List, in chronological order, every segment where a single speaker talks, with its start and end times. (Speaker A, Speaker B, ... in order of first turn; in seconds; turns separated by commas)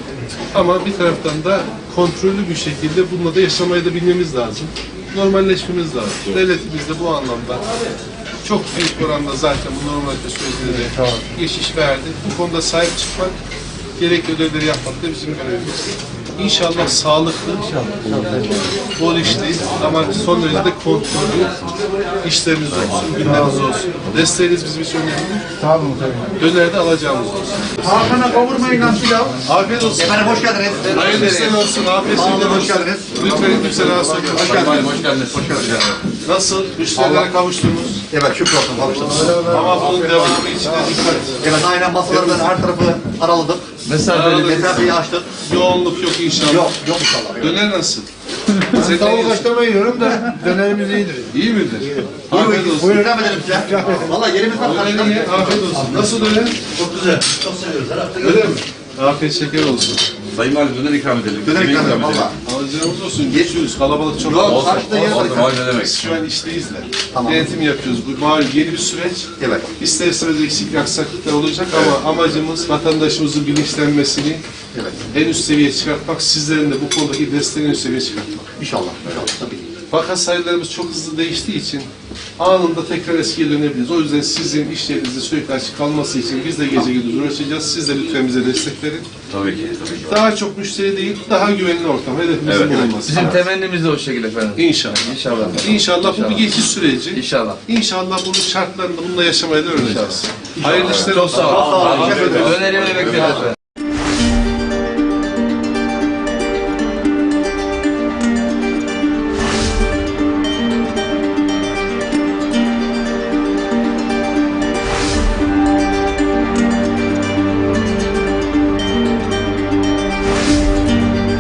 Speaker A: 0.5-7.7, Speaker A: 8.4-13.3, Speaker B: 10.6-11.2, Speaker A: 14.0-17.7, Speaker B: 17.7-18.7, Speaker A: 18.9-21.6, Speaker A: 22.2-25.5, Speaker B: 25.6-26.3, Speaker A: 26.4-28.1, Speaker B: 27.8-29.4, Speaker A: 29.4-34.9, Speaker B: 29.9-31.5, Speaker C: 31.0-31.5, Speaker B: 32.1-35.8, Speaker C: 34.5-36.0, Speaker A: 36.2-38.0, Speaker B: 36.9-37.4, Speaker B: 38.1-45.3, Speaker A: 39.4-42.5, Speaker C: 43.9-44.4, Speaker A: 44.1-46.8, Speaker B: 46.5-47.6, Speaker A: 47.4-48.1, Speaker B: 48.6-58.5, Speaker A: 48.7-49.5, Speaker C: 51.3-52.0, Speaker A: 52.3-54.0, Speaker A: 54.5-56.6, Speaker A: 58.2-60.0, Speaker C: 60.3-62.3, Speaker B: 61.4-62.4, Speaker A: 62.4-74.4, Speaker B: 63.3-63.5, Speaker B: 64.2-65.6, Speaker C: 64.3-66.1, Speaker B: 67.1-67.6, Speaker B: 69.4-69.7, Speaker B: 74.7-75.1, Speaker A: 75.1-78.5, Speaker B: 78.6-79.7, Speaker A: 79.9-89.1, Speaker C: 89.3-90.2, Speaker A: 90.0-93.4, Speaker C: 92.5-96.5, Speaker A: 94.5-103.4, Speaker C: 97.1-97.6, Speaker C: 99.8-103.5, Speaker B: 100.6-103.5